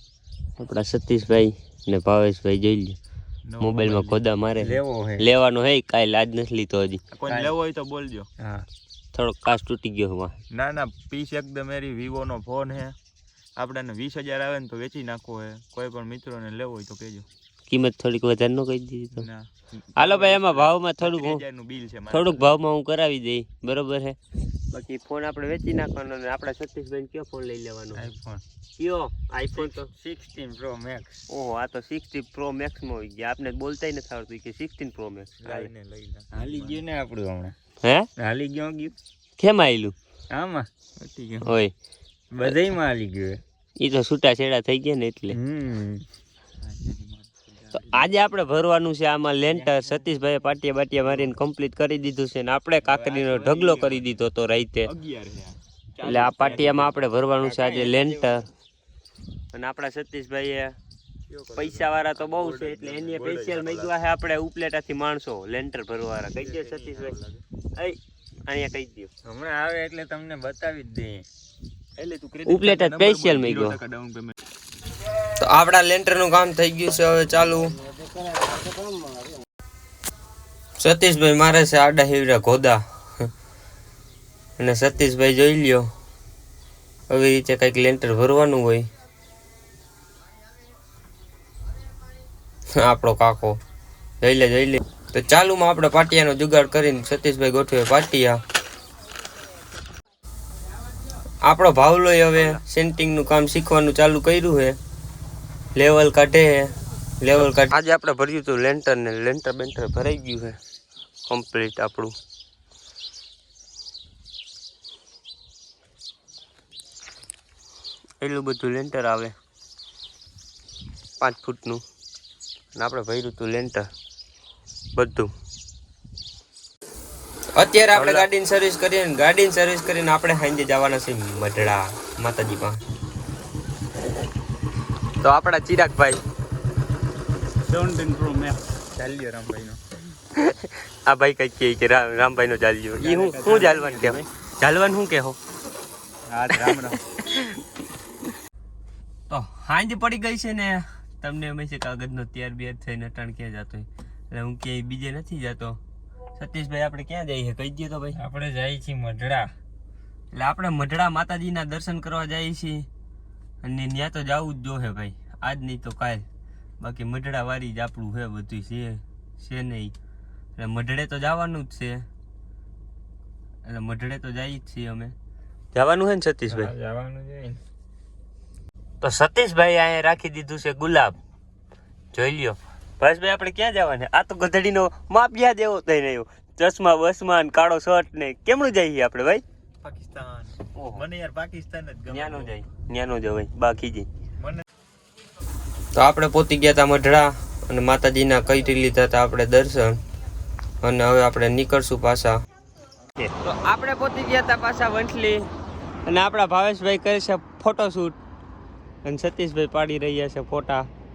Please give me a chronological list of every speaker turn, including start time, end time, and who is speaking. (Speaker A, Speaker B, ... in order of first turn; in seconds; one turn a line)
Speaker A: 0.6-3.0
Speaker B: 3.5-4.2
Speaker A: 3.6-7.0
Speaker C: 4.6-5.2
Speaker B: 7.1-8.3
Speaker C: 7.3-7.5
Speaker C: 8.4-8.6
Speaker A: 9.1-10.3
Speaker B: 10.5-13.0
Speaker B: 13.6-17.3
Speaker A: 17.7-19.3
Speaker B: 19.1-22.6
Speaker A: 19.9-21.4
Speaker A: 22.1-24.2
Speaker A: 24.7-28.1
Speaker C: 27.9-28.4
Speaker A: 28.8-29.9
Speaker C: 29.6-31.2
Speaker A: 31.3-35.7
Speaker B: 35.4-36.8
Speaker C: 36.3-37.5
Speaker A: 37.8-38.1
Speaker C: 38.2-38.9
Speaker A: 39.4-40.0
Speaker C: 40.3-40.7
Speaker B: 41.0-41.5
Speaker A: 41.4-41.7
Speaker C: 42.3-43.4
Speaker A: 43.8-45.4
Speaker C: 45.3-46.0
Speaker B: 46.6-48.1
Speaker A: 47.7-54.9
Speaker B: 49.5-50.1
Speaker B: 51.0-51.3
Speaker B: 52.8-54.1
Speaker B: 54.8-58.4
Speaker A: 56.0-58.5
Speaker A: 59.5-60.8
Speaker B: 61.3-64.0
Speaker A: 61.5-67.1
Speaker B: 66.3-67.4
Speaker A: 67.8-69.1
Speaker C: 69.2-71.2
Speaker B: 72.0-74.3
Speaker A: 72.5-73.8
Speaker A: 75.4-77.8
Speaker A: 80.8-82.8
Speaker A: 84.6-85.9
Speaker A: 87.1-88.9
Speaker A: 92.7-93.6
Speaker A: 94.2-98.4
Speaker A: 101.4-104.8
Speaker A: 105.7-110.6
Speaker A: 111.3-112.1
Speaker A: 118.2-119.3
Speaker A: 121.2-121.8
Speaker A: 122.7-123.8
Speaker A: 124.9-125.3
Speaker A: 127.5-132.8
Speaker A: 135.2-136.2
Speaker C: 137.7-138.6
Speaker B: 138.9-139.8
Speaker A: 140.4-145.4
Speaker B: 143.0-144.3
Speaker B: 146.3-147.0
Speaker A: 146.5-147.5
Speaker A: 149.3-155.8
Speaker A: 156.3-158.2
Speaker C: 158.2-159.5
Speaker A: 160.3-162.9
Speaker A: 163.6-166.2
Speaker A: 166.8-169.9
Speaker A: 170.6-172.0
Speaker A: 173.7-175.1
Speaker A: 175.7-176.7
Speaker C: 176.5-177.6
Speaker A: 179.0-181.2
Speaker A: 182.1-189.4
Speaker B: 189.8-192.5
Speaker A: 190.8-191.0
Speaker A: 192.1-194.1
Speaker B: 194.4-194.7
Speaker A: 196.0-200.0
Speaker A: 200.8-202.4
Speaker A: 203.3-205.5
Speaker A: 206.1-208.2
Speaker A: 209.1-210.9